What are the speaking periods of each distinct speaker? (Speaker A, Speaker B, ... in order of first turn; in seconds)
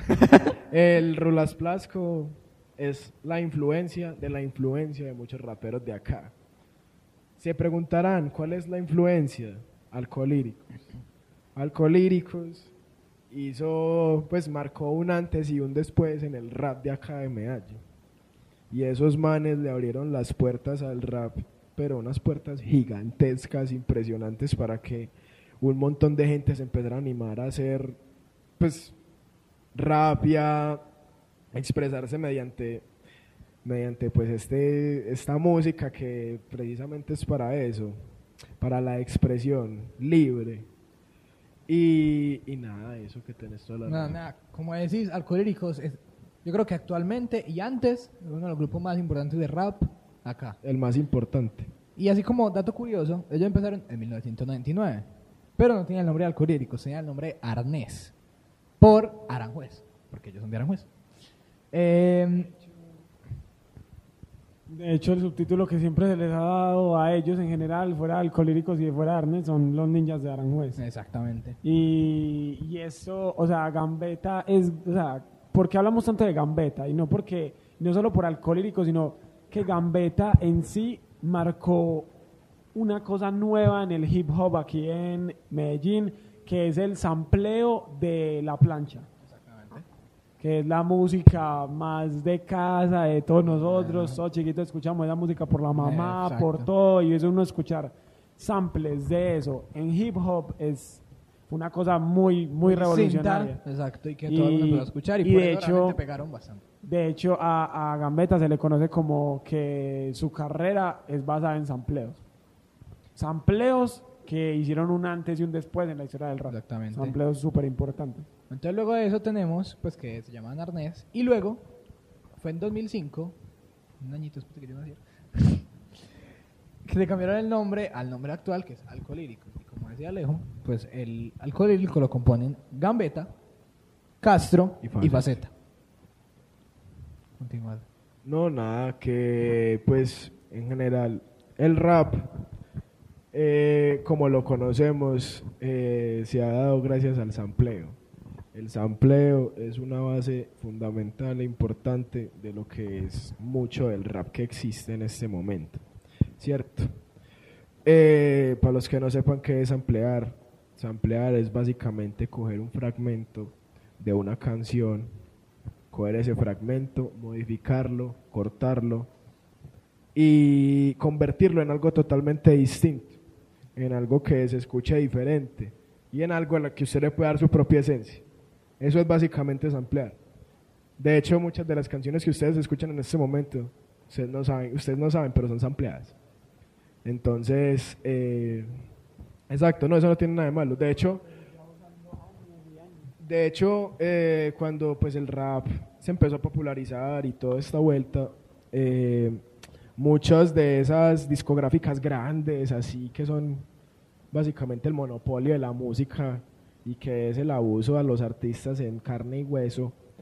Speaker A: 0.7-6.3, 7.4-10.6, 11.5-12.7, 13.3-17.8, 18.7-28.0, 28.6-28.9, 29.7-30.8, 31.5-32.9, 33.6-38.0, 38.6-40.7, 41.7-44.2, 50.6-51.7, 134.8-135.3, 138.2-142.4, 143.3-148.0, 148.5-155.8, 156.4-156.9, 157.8-165.1, 165.9-169.1, 170.1-173.2, 173.8-178.2, 178.8-180.2, 181.0-186.1, 187.0-188.8, 189.5-191.2, 193.2-199.4, 200.0-203.7, 204.3-210.0
Speaker B: 43.9-50.6, 52.0-58.1, 58.8-60.9, 61.7-62.5, 70.8-71.6, 89.2-89.8, 93.4-94.2, 95.7-96.7, 102.6-106.6, 116.5-117.2, 118.5-121.7, 122.3-123.4, 124.0-125.6, 126.8-133.3, 134.2-135.5, 137.4-137.9
Speaker C: 64.7-70.8, 71.6-82.1, 82.7-89.1, 90.4-103.6, 104.3-106.0, 106.8-112.2, 113.2-118.3, 192.0-193.1